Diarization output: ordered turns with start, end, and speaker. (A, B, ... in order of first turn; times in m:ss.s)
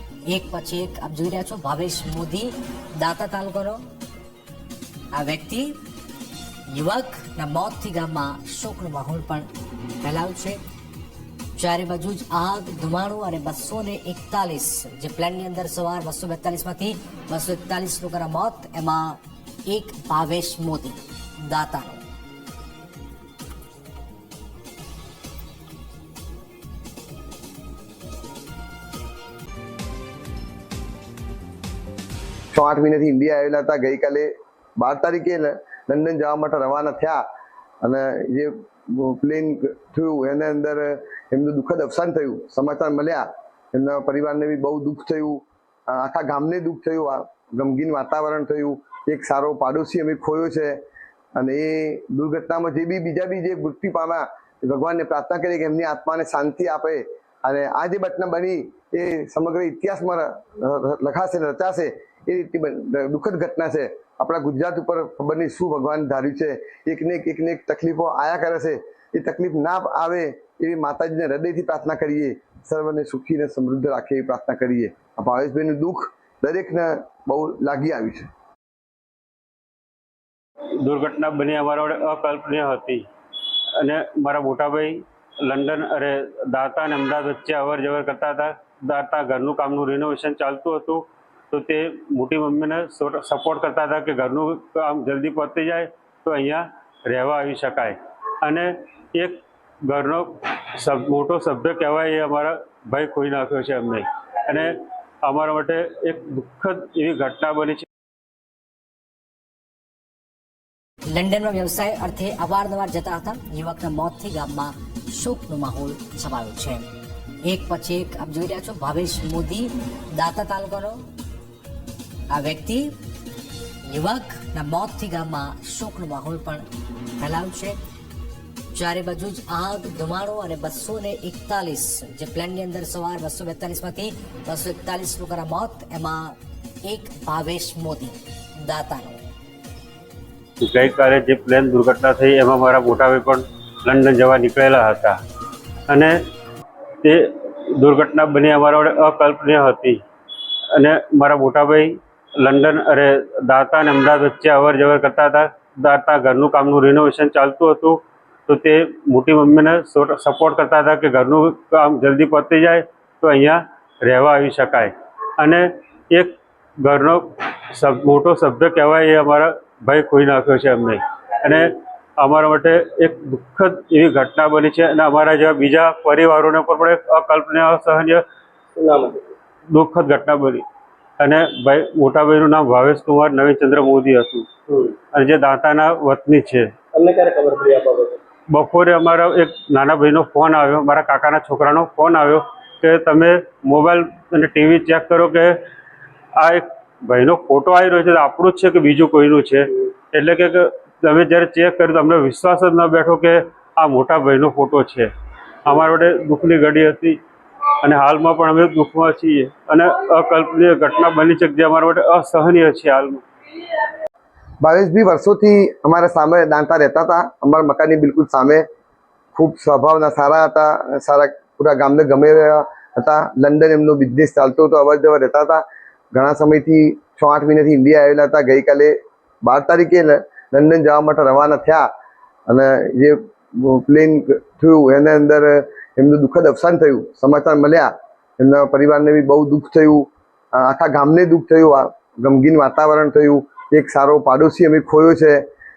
0:00.3-0:03.8 A
0:05.1-0:05.8 A
0:06.7-0:09.5 A
0:10.0-0:10.6 A
0:11.6-0:22.0 A
0:32.5-0:37.2 B
0:37.8-0:50.8 B
0:51.4-1:18.3 B
1:20.8-1:23.0 C
1:23.8-1:47.9 C
1:51.1-1:56.9 A
1:57.5-2:01.1 A
2:02.3-2:02.9 A
2:03.9-2:06.6 A
2:07.2-2:07.8 A
2:08.7-2:19.2 A
2:20.6-2:25.2 C
2:25.9-2:26.2 C
2:27.0-2:30.0 C
2:30.7-2:58.2 C
2:58.8-2:59.4 D
2:59.7-3:00.6 C
3:01.2-3:04.5 C
3:05.1-3:06.7 C
3:06.9-3:08.2 D
3:08.5-3:15.6 C
3:16.4-3:25.1 C
3:25.6-3:27.2 C
3:27.8-3:33.8 C
3:34.6-3:38.6 B
3:39.3-3:51.9 B
3:52.5-4:05.4 B